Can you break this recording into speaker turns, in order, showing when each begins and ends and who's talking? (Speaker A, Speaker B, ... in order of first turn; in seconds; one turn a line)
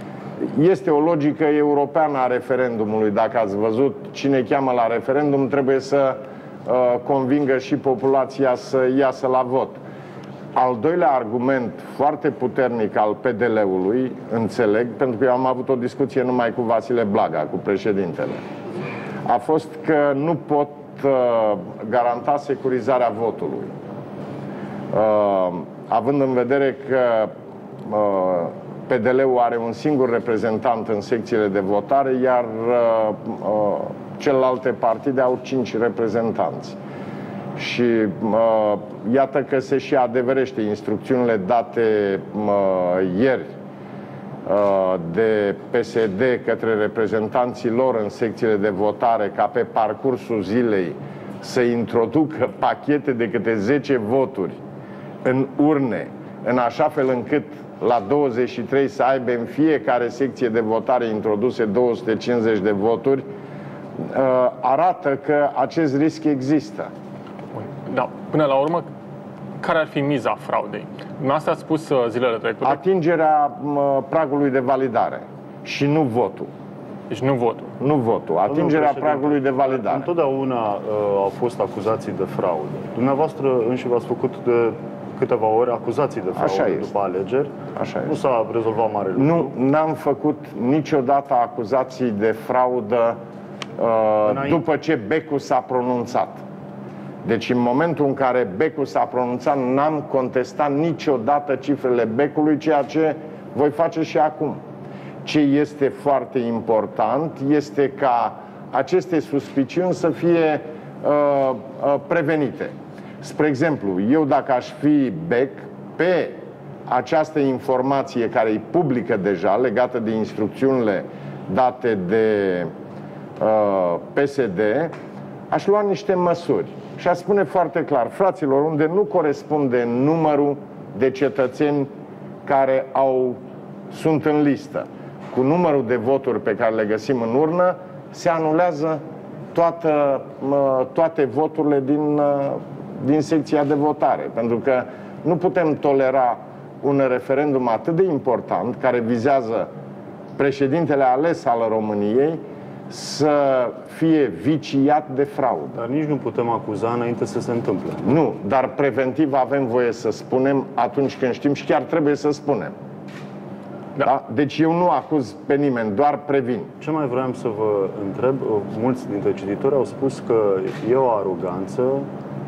Speaker A: 0.4-9.8
Speaker A: 10.6-18.4
Speaker A: 19.2-23.7
Speaker A: 24.9-36.8
Speaker A: 37.6-43.5
Speaker A: 44.5-54.6
Speaker A: 55.2-63.3
Speaker A: 64.0-66.9
Speaker B: 67.5-68.9
Speaker B: 69.6-72.8
Speaker A: 72.6-76.5
Speaker B: 77.1-77.7
Speaker A: 77.8-80.1
Speaker C: 78.5-87.5
Speaker A: 86.3-86.9
Speaker A: 87.8-88.2
Speaker C: 88.1-89.5
Speaker A: 89.2-93.2
Speaker A: 93.8-96.4
Speaker C: 94.3-94.6
Speaker A: 97.2-104.6
Speaker A: 105.2-122.7
Speaker A: 123.4-125.0
Speaker A: 125.5-131.9
Speaker A: 132.4-133.4
Speaker A: 133.9-139.0
Speaker A: 139.5-149.7
Speaker A: 150.4-155.8
Speaker C: 155.8-158.2
Speaker A: 158.0-162.8
Speaker A: 164.0-166.7
Speaker C: 166.8-172.1